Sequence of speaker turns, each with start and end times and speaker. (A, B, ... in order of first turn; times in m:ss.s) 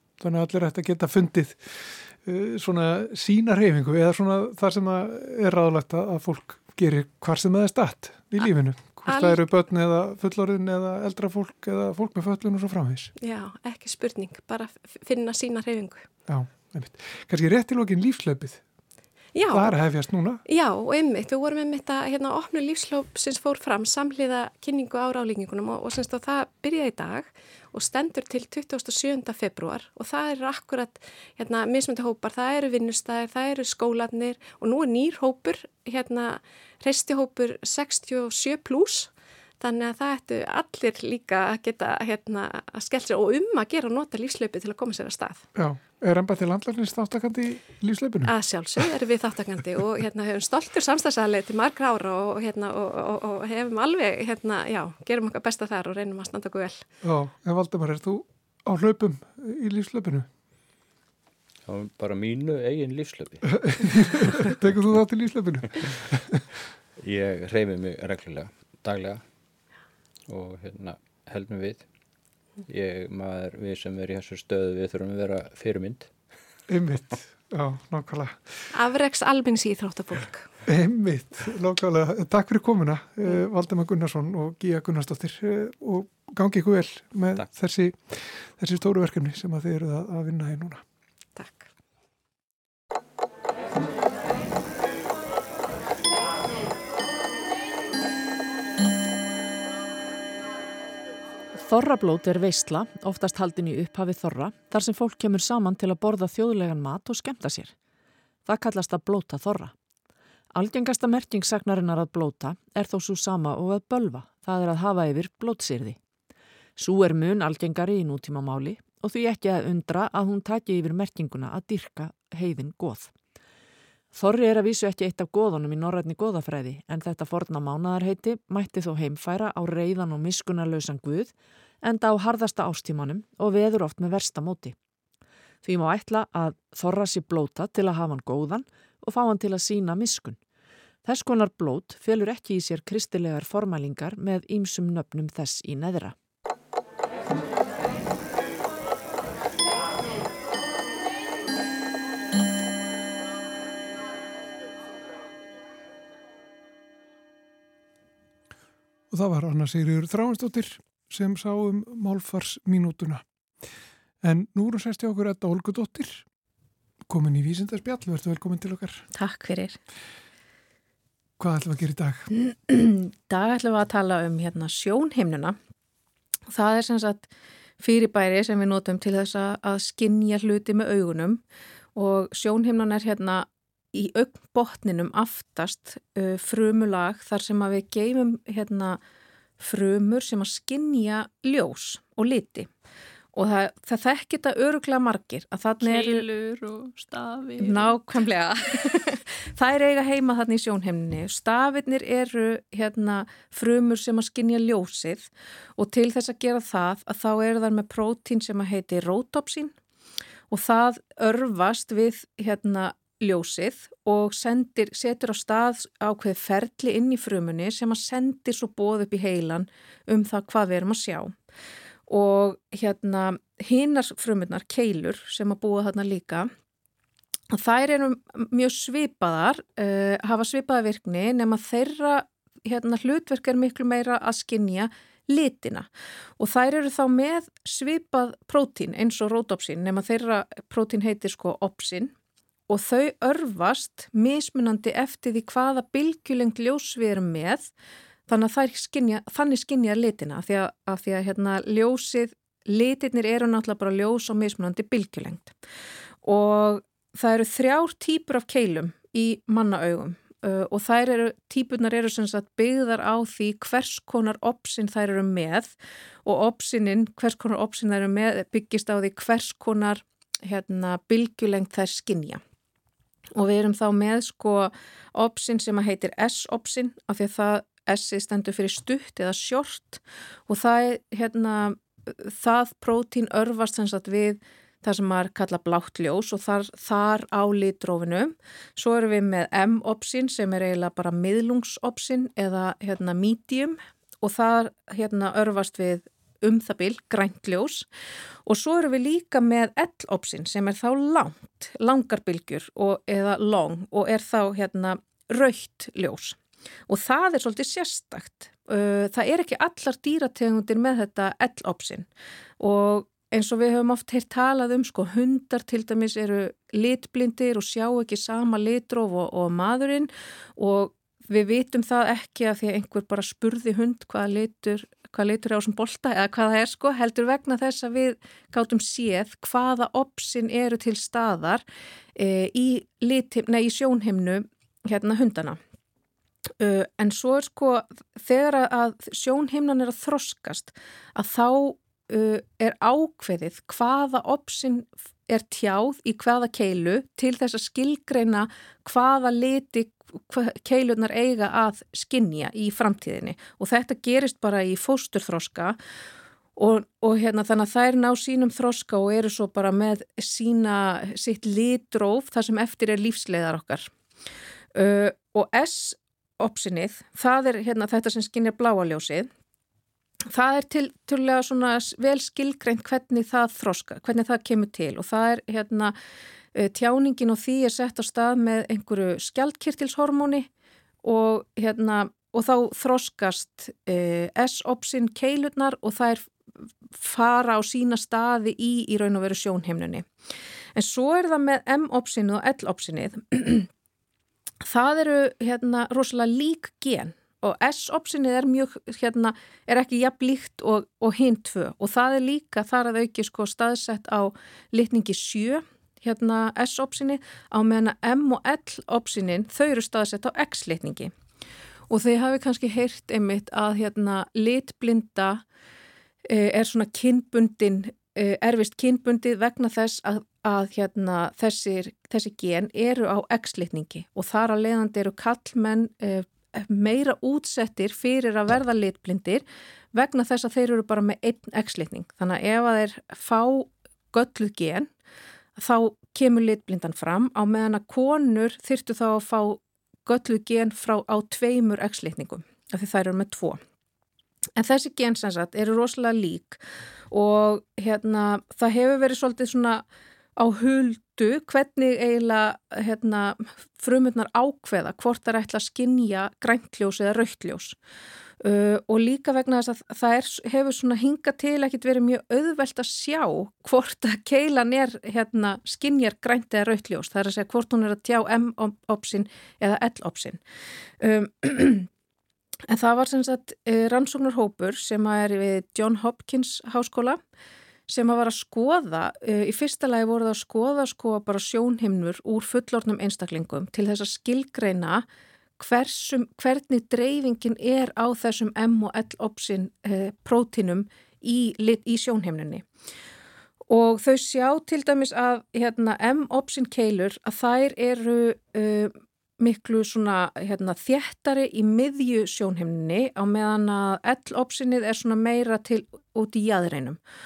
0:00.2-0:13.1 A
0:09.0-0:09.4 B
0:13.2-0:16.1 B
0:16.3-0:18.6 A
0:19.4-0:19.8 B
0:19.5-0:20.4 A
0:20.5-0:45.4 B
0:45.6-0:48.4 A
0:48.2-0:56.9 B
0:57.0-1:00.3 A
1:01.7-1:04.5 C
1:03.6-1:06.4 A
1:07.0-1:09.2 C
1:10.3-1:11.8 C
1:12.7-1:16.1 C
1:16.7-1:18.7 A
1:18.7-1:20.5 B
1:20.7-1:30.8 A
1:31.4-1:31.7 B
1:41.5-1:47.7 D
1:48.5-1:49.7 D
1:50.6-1:56.0 D
1:56.8-2:03.1 D
2:04.1-2:14.8 D
2:15.6-2:20.4 D
2:21.0-2:26.2 D
2:39.1-2:43.2 A
2:44.2-2:46.2 A
2:47.1-2:49.0 A
2:49.1-2:49.8 E
2:51.4-2:52.3 A
2:52.3-2:55.6 E
2:56.5-2:57.3 E
2:57.8-3:01.4 E
3:02.0-3:09.0 E
3:09.6-3:12.7 E
3:13.3-3:16.3 E
3:15.8-3:18.0 F
3:17.6-3:29.8 E
3:30.5-3:41.4 E
3:42.1-3:46.5 E
3:47.5-4:02.1 E
4:02.7-4:07.7 E
4:08.3-4:15.6 E
4:16.2-4:32.4 E
4:33.4-4:57.9 E
4:58.4-5:12.1 E
5:12.6-5:31.6 E
5:32.2-5:35.6 E
5:36.6-5:55.8 E
5:56.6-6:03.9 E
6:04.8-6:09.3 E
6:10.3-6:16.0 E
6:16.6-6:20.5 E
6:21.0-6:26.3 E
6:26.9-6:30.1 E
6:30.8-6:33.7 E
6:34.7-6:51.1 E
6:51.9-6:55.4 E
6:56.2-7:14.9 E
7:15.6-7:23.6 E
7:24.6-7:29.8 E
7:30.4-7:37.8 E
7:38.4-7:50.4 E
7:51.0-7:51.9 E
7:52.7-7:57.2 E
7:57.9-8:05.1 E
8:05.6-8:12.7 E
8:13.7-8:27.0 E